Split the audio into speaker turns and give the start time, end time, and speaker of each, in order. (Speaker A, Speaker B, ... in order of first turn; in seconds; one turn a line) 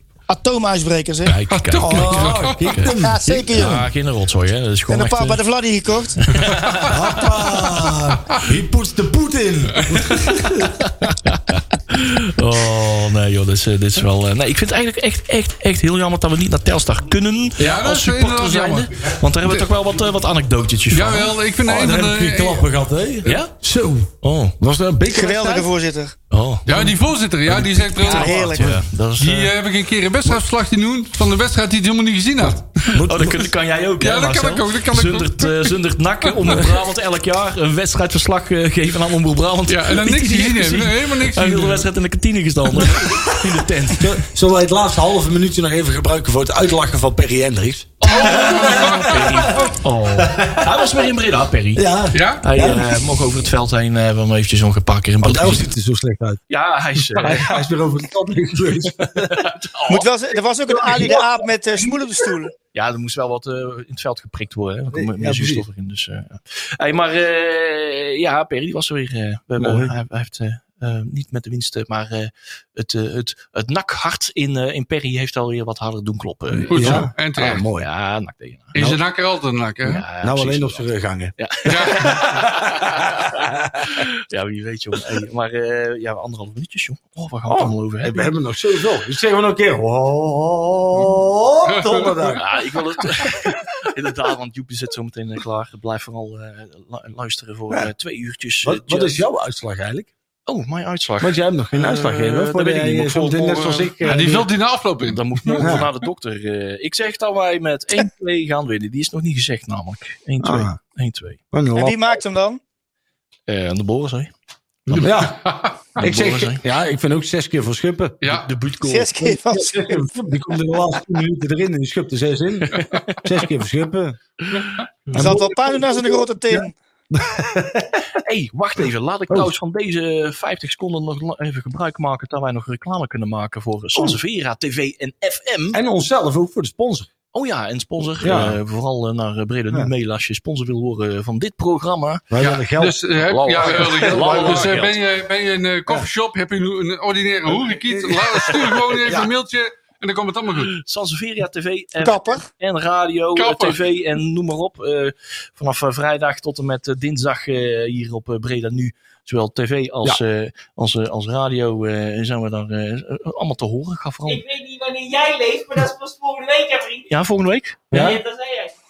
Speaker A: 0.3-1.4
Speaker B: 1.3-2.9
Speaker C: 1.5-2.8
Speaker D: 1.8-3.8
Speaker A: 2.9-3.9
Speaker B: 3.5-5.4
Speaker A: 4.9-6.3
Speaker B: 6.2-7.2
Speaker C: 6.6-6.9
Speaker D: 6.9-10.8
Speaker B: 10.1-21.4
Speaker C: 17.6-18.9
Speaker C: 20.9-22.7
Speaker D: 21.6-25.7
Speaker B: 23.2-23.5
Speaker B: 24.2-24.6
Speaker A: 25.1-26.1
Speaker B: 26.3-29.6
Speaker C: 26.7-28.6
Speaker A: 28.0-28.8
Speaker C: 29.2-32.9
Speaker D: 32.8-33.5
Speaker B: 32.9-44.2
Speaker C: 34.0-35.8
Speaker C: 36.3-36.6
Speaker C: 39.7-41.9
Speaker D: 43.0-43.4
Speaker D: 43.9-50.9
Speaker B: 48.0-51.9
Speaker C: 48.2-49.1
Speaker D: 51.8-52.9
Speaker C: 52.1-52.4
Speaker B: 52.4-55.7
Speaker D: 55.2-56.4
Speaker B: 56.5-57.5
Speaker D: 57.1-59.5
Speaker B: 59.2-60.1
Speaker A: 59.9-62.5
Speaker B: 60.7-61.2
Speaker D: 60.9-61.2
Speaker B: 62.7-77.1
Speaker D: 64.9-65.7
Speaker D: 69.6-69.9
Speaker C: 76.6-77.7
Speaker D: 76.7-77.9
Speaker B: 77.7-78.7
Speaker C: 78.7-80.0
Speaker B: 79.8-83.3
Speaker D: 80.2-84.0
Speaker C: 81.7-82.3
Speaker B: 83.9-88.3
Speaker D: 87.5-92.5
Speaker C: 91.7-92.2
Speaker B: 92.2-99.2
Speaker D: 98.6-100.1
Speaker B: 100.5-104.4
Speaker D: 101.2-104.5
Speaker C: 104.0-105.8
Speaker B: 105.0-111.4
Speaker D: 105.6-105.9
Speaker D: 110.4-110.8
Speaker D: 111.5-112.0
Speaker A: 111.8-112.6
Speaker B: 113.5-114.3
Speaker C: 114.9-116.0
Speaker D: 115.0-115.4
Speaker D: 116.0-118.3
Speaker B: 116.0-116.6
Speaker C: 118.2-118.5
Speaker B: 118.3-119.3
Speaker A: 118.8-120.1
Speaker D: 119.2-124.2
Speaker B: 122.8-123.2
Speaker C: 124.5-124.8
Speaker D: 125.1-128.1
Speaker A: 125.1-126.7
Speaker B: 128.2-135.8
Speaker D: 135.7-137.1
Speaker B: 137.3-142.3
Speaker D: 138.2-138.6
Speaker D: 142.3-143.0
Speaker C: 142.4-150.7
Speaker B: 143.2-145.0
Speaker D: 143.6-144.8
Speaker D: 147.7-149.3
Speaker B: 150.7-164.4
Speaker A: 152.0-152.4
Speaker C: 153.3-153.8
Speaker E: 164.3-167.1
Speaker B: 167.1-167.9
Speaker D: 167.9-168.2
Speaker E: 167.9-168.7